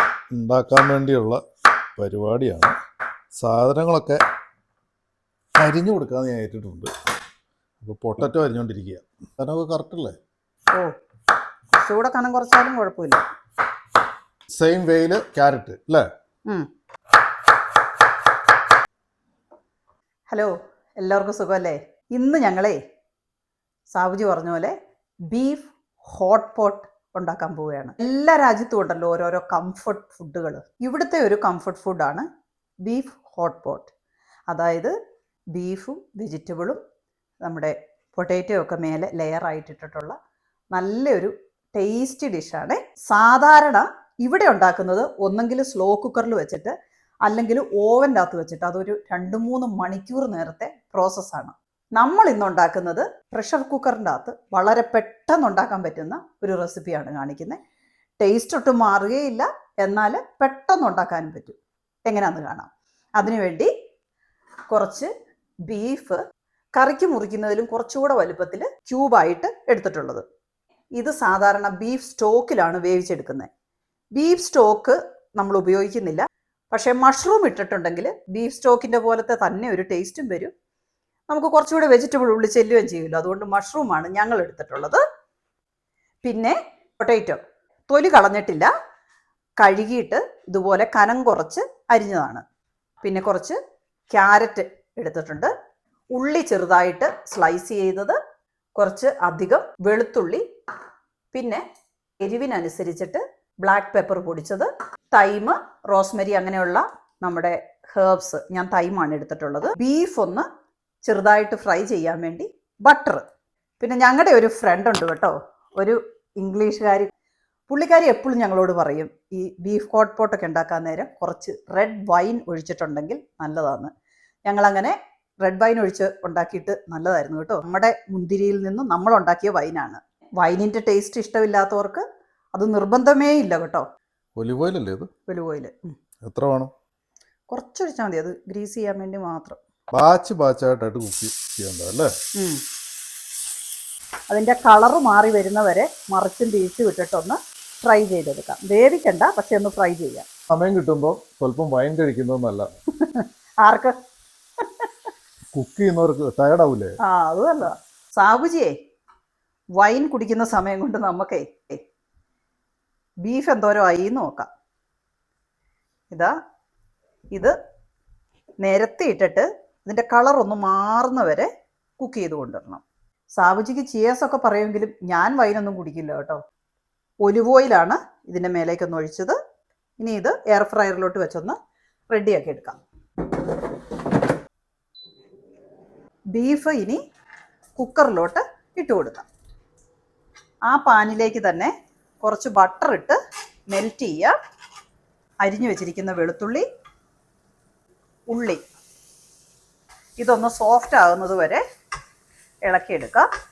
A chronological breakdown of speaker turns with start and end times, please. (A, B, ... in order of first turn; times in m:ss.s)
0:00.3-0:01.4 A
0:02.0-0:02.7 A
0:03.4-0:04.2 A
0:05.6-0:06.9 A
0:07.8-0:10.2 A
0:11.8-0:13.2 B
0:14.5-0:16.0 A
0:20.3-0:22.8 B
0:23.9-0:24.7 B
0:25.3-0:32.3 B
0:32.8-0:33.9 B
0:34.5-0:34.9 B
0:35.5-0:36.8 B
0:37.4-0:40.1 B
0:40.7-0:46.7 B
0:47.2-0:57.6 B
0:58.2-1:03.7 B
1:04.7-1:05.1 B
1:05.7-1:06.2 B
1:06.7-1:10.2 B
1:11.0-1:13.5 B
1:14.1-1:20.5 B
1:21.3-1:25.0 B
1:26.2-1:27.4 B
1:27.9-1:28.7 B
1:29.6-1:32.4 B
1:33.0-1:33.6 B
1:34.1-1:35.5 B
1:36.1-1:38.2 B
1:38.8-1:40.4 B
1:41.3-1:41.6 B
1:42.2-1:50.4 B
1:51.0-1:53.2 B
1:53.8-1:57.1 B
1:57.7-2:03.9 B
2:04.5-2:13.8 B
2:14.4-2:15.1 A
2:15.3-2:16.0 B
2:16.2-2:16.7 A
2:17.5-2:19.6 B
2:19.9-2:22.1 A
2:22.3-2:22.6 B
2:24.3-2:30.2 B
2:30.5-2:32.7 A
2:33.0-2:34.0 B
2:34.6-2:34.9 B
2:35.5-2:37.0 A
2:37.0-2:38.7 B
2:39.8-2:41.8 B
2:43.2-2:44.5 B
2:48.6-2:52.8 B
2:53.4-2:56.4 B
2:57.2-2:59.4 B
3:00.0-3:01.6 B
3:02.1-3:02.8 B
3:06.3-3:07.0 B
3:07.8-3:09.2 B
3:10.7-3:13.2 B
3:13.7-3:14.3 B
3:15.4-3:16.6 B
3:18.3-3:18.6 B
3:20.2-3:21.6 B
3:22.6-3:23.3 B